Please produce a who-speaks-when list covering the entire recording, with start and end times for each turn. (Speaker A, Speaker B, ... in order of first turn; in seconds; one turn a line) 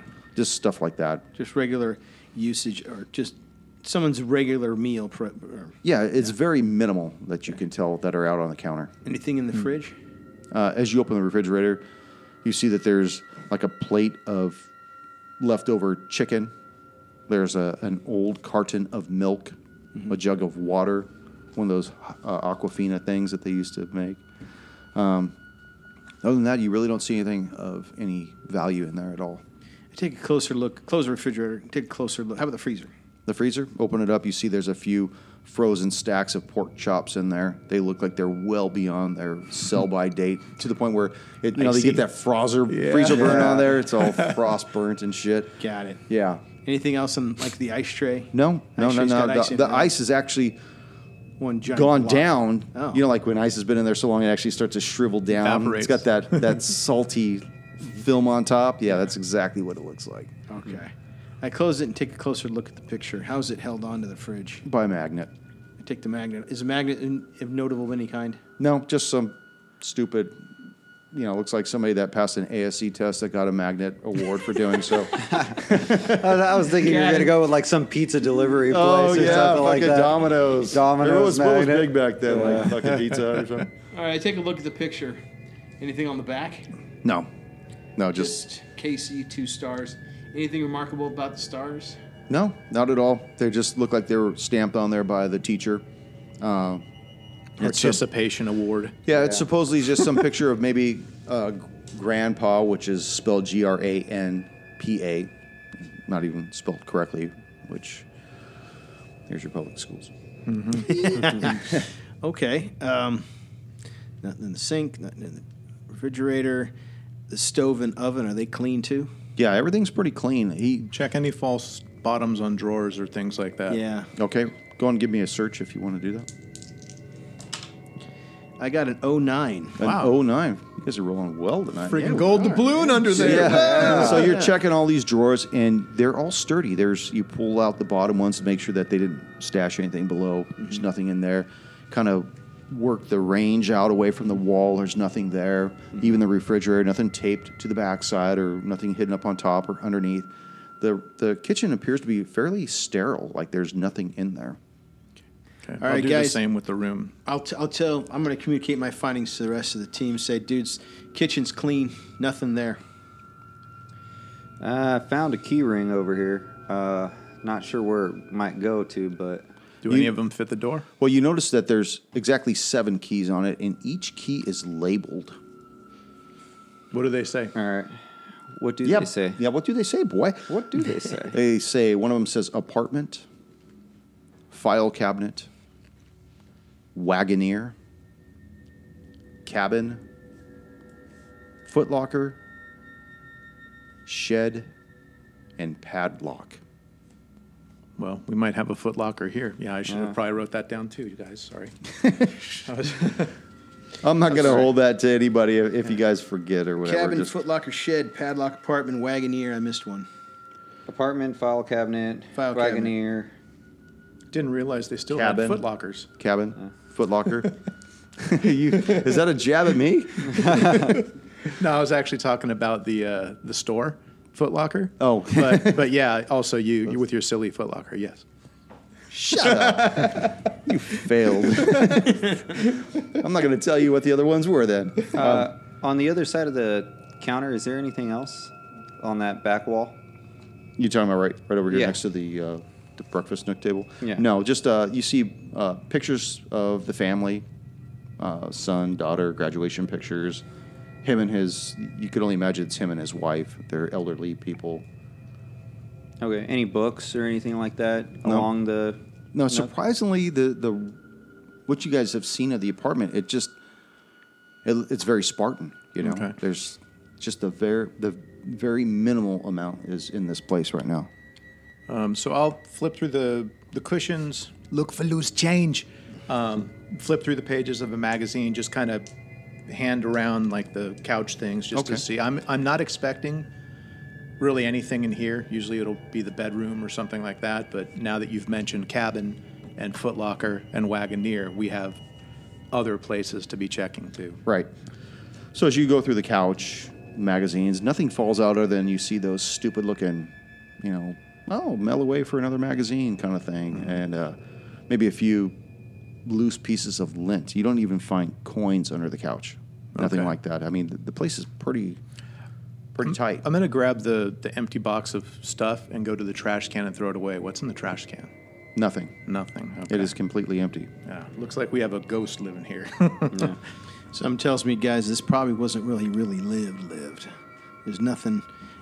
Speaker A: 0.3-1.2
Speaker B: 1.4-5.8
Speaker A: 5.8-8.9
Speaker B: 9.1-9.9
Speaker A: 10.5-11.8
Speaker A: 12.4-14.7
Speaker A: 15.4-16.5
Speaker A: 17.3-19.6
Speaker A: 20.1-24.2
Speaker A: 24.9-25.4
Speaker A: 26.2-29.4
Speaker B: 29.9-32.9
Speaker A: 33.3-46.4
Speaker C: 41.6-42.0
Speaker C: 42.7-44.4
Speaker B: 43.1-43.7
Speaker B: 45.6-46.0
Speaker B: 46.6-49.9
Speaker A: 48.3-50.6
Speaker B: 51.4-53.0
Speaker A: 51.7-60.3
Speaker C: 55.4-56.6
Speaker B: 60.5-64.6
Speaker A: 64.7-65.3
Speaker B: 65.8-68.4
Speaker A: 68.6-70.5
Speaker A: 71.1-76.2
Speaker D: 75.1-82.8
Speaker B: 76.7-77.4
Speaker A: 78.7-83.7
Speaker B: 83.9-85.2
Speaker B: 85.8-86.7
Speaker A: 87.0-87.3
Speaker A: 88.0-88.4
Speaker B: 88.2-92.0
Speaker A: 92.3-95.8
Speaker A: 96.4-96.8
Speaker A: 97.6-98.0
Speaker C: 97.6-99.0
Speaker A: 99.1-108.1
Speaker D: 99.1-99.4
Speaker A: 109.3-110.1
Speaker C: 110.5-110.9
Speaker B: 110.8-113.3
Speaker A: 110.9-111.8
Speaker B: 114.2-116.7
Speaker B: 117.3-119.1
Speaker A: 119.4-120.9
Speaker C: 120.9-123.8
Speaker B: 123.7-124.1
Speaker A: 124.2-126.3
Speaker B: 128.6-129.8
Speaker A: 129.8-132.3
Speaker C: 129.8-130.2
Speaker C: 131.9-134.2
Speaker B: 132.0-134.5
Speaker A: 133.2-150.3
Speaker D: 133.4-134.3
Speaker A: 150.8-154.6
Speaker C: 155.7-157.2
Speaker B: 155.8-156.4
Speaker B: 157.2-162.8
Speaker D: 164.6-169.5
Speaker C: 169.8-170.9
Speaker A: 169.9-170.2
Speaker A: 171.0-175.4
Speaker C: 176.9-177.6
Speaker D: 177.6-177.9
Speaker D: 178.5-179.4
Speaker A: 178.8-183.3
Speaker D: 180.5-181.4
Speaker A: 184.5-185.5
Speaker A: 186.9-187.8
Speaker A: 189.4-190.0
Speaker A: 191.7-192.4
Speaker A: 194.1-194.7
Speaker A: 195.6-196.6
Speaker C: 198.0-203.3
Speaker D: 199.9-200.2
Speaker A: 204.0-207.3
Speaker C: 204.3-204.7
Speaker B: 206.8-210.1
Speaker D: 210.9-213.3
Speaker B: 212.4-212.9
Speaker C: 214.3-216.1
Speaker A: 215.1-215.6
Speaker A: 216.2-217.6
Speaker A: 218.2-220.8
Speaker D: 220.2-221.0
Speaker C: 221.5-228.2
Speaker A: 225.0-225.8
Speaker A: 229.1-235.5
Speaker C: 229.5-230.3
Speaker D: 235.1-240.0
Speaker A: 240.8-247.4
Speaker D: 241.7-242.0
Speaker A: 248.2-250.4
Speaker A: 251.0-254.8
Speaker D: 256.2-259.0
Speaker A: 258.2-258.5
Speaker A: 259.3-261.0
Speaker A: 261.7-263.6
Speaker A: 264.6-271.1
Speaker C: 266.0-266.4
Speaker C: 271.9-279.1
Speaker C: 279.7-283.5
Speaker A: 281.7-282.0
Speaker C: 284.4-292.0
Speaker C: 292.7-294.4
Speaker A: 295.5-304.4
Speaker A: 304.9-305.6
Speaker A: 306.3-312.0
Speaker C: 310.0-310.3
Speaker A: 312.9-313.4
Speaker C: 313.1-318.3
Speaker A: 318.8-319.1
Speaker C: 319.3-320.1
Speaker A: 319.9-320.9
Speaker C: 321.1-323.6
Speaker B: 324.1-327.3
Speaker B: 327.9-328.5